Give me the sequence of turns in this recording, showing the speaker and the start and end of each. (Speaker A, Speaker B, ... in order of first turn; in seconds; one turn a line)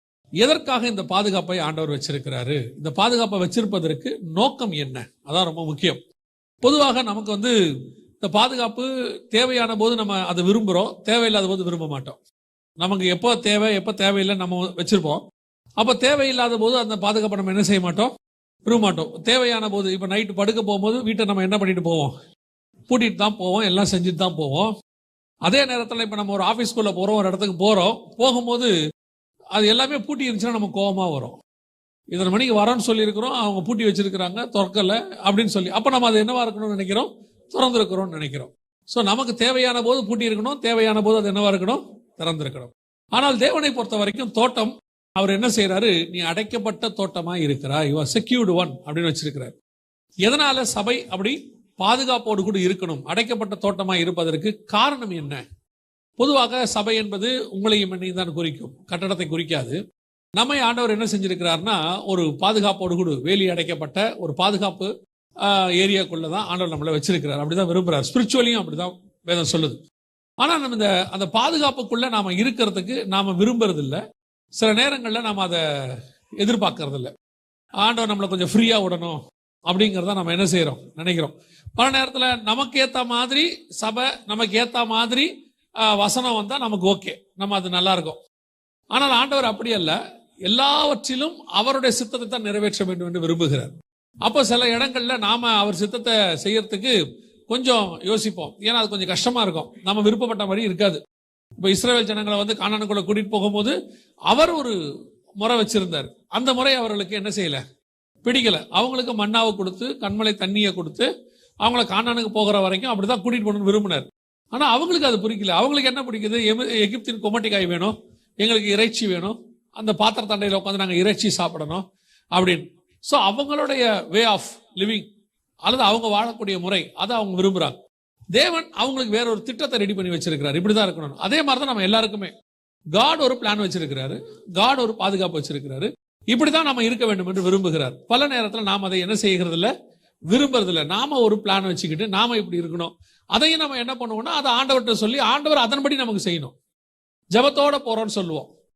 Speaker A: 0.4-6.0
Speaker A: 6.6-7.5
Speaker A: 8.2-12.2
Speaker A: 12.8-15.2
Speaker A: 15.8-18.1
Speaker A: 18.6-22.1
Speaker A: 22.9-24.7
Speaker A: 25.4-28.7
Speaker A: 29.5-31.4
Speaker A: 32.1-49.5
Speaker A: 50.2-55.4
Speaker A: 56.2-59.8
Speaker A: 60.4-64.9
Speaker A: 65.4-69.8
Speaker A: 70.4-74.0
Speaker A: 74.5-75.6
Speaker A: 76.4-77.1
Speaker A: 77.8-85.3
Speaker A: 85.8-88.2
Speaker A: 88.9-93.7
Speaker A: 94.2-97.0
Speaker A: 97.5-101.0
Speaker A: 101.6-103.7
Speaker A: 104.3-104.7
Speaker A: 105.4-107.6
Speaker A: 108.2-111.1
Speaker A: 111.6-121.8
Speaker A: 122.3-125.0
Speaker A: 125.6-127.8
Speaker A: 128.3-132.3
Speaker A: 132.9-139.7
Speaker A: 140.3-146.5
Speaker A: 147.3-148.5